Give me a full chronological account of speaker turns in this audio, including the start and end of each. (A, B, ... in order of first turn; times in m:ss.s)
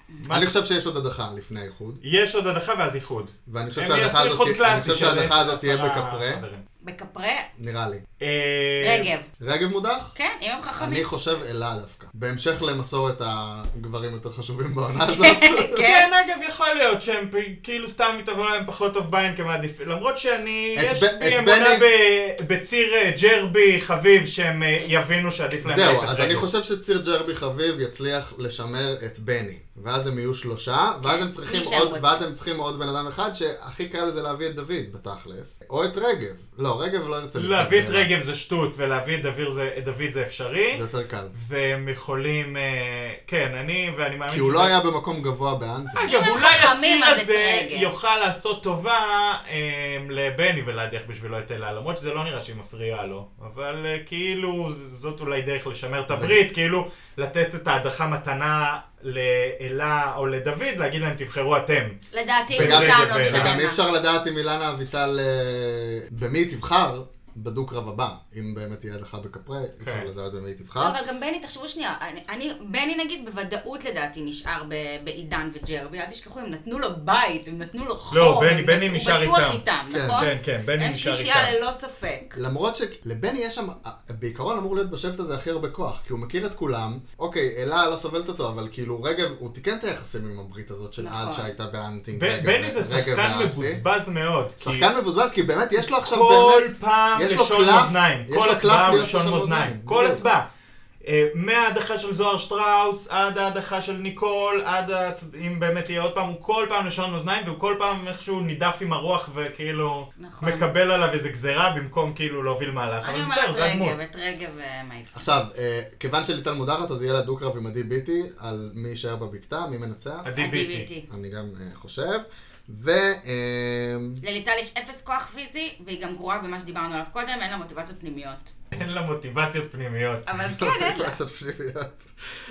0:00.2-0:00.5 A
0:00.3-0:02.0 B
0:02.0-0:06.6 A
0:03.5-0:06.4 B
0:06.8-0:07.5 C
0:07.6-0:08.0 B
0:08.2-0:09.1 A
0:08.8-0:09.3 C
0:09.4-0:10.1 B
0:10.1-0:11.0 C
0:10.8-0:15.8 B
0:15.2-0:16.0 C
0:15.8-0:26.4 A
0:20.7-0:21.8 B
0:25.6-0:38.1 B
0:31.0-0:32.2 C
0:37.4-0:40.8 A
0:40.7-0:41.3 B
0:41.3-0:44.7 A
0:44.3-0:46.1 B
0:46.0-1:02.0 A
0:46.0-0:47.9 C
0:56.1-0:56.4 B
1:02.1-1:03.8 C
1:02.5-1:03.5 A
1:02.5-1:11.0 B
1:09.8-1:10.1 A
1:10.8-1:22.4 C
1:18.1-1:19.6 A
1:19.9-1:20.3 B
1:20.1-1:21.5 A
1:22.3-1:33.8 B
1:31.0-1:31.5 C
1:32.1-1:34.9 A
1:34.6-1:40.2 B
1:36.0-1:40.4 A
1:41.0-1:54.0 A
1:50.2-1:50.7 C
1:53.0-1:55.3 C
1:55.1-2:00.3 B
2:00.2-2:00.9 A
2:00.4-2:01.1 C
2:01.1-2:04.2 B
2:04.2-2:08.6 C
2:08.7-2:10.3 A
2:10.2-2:11.1 C
2:10.5-2:12.1 B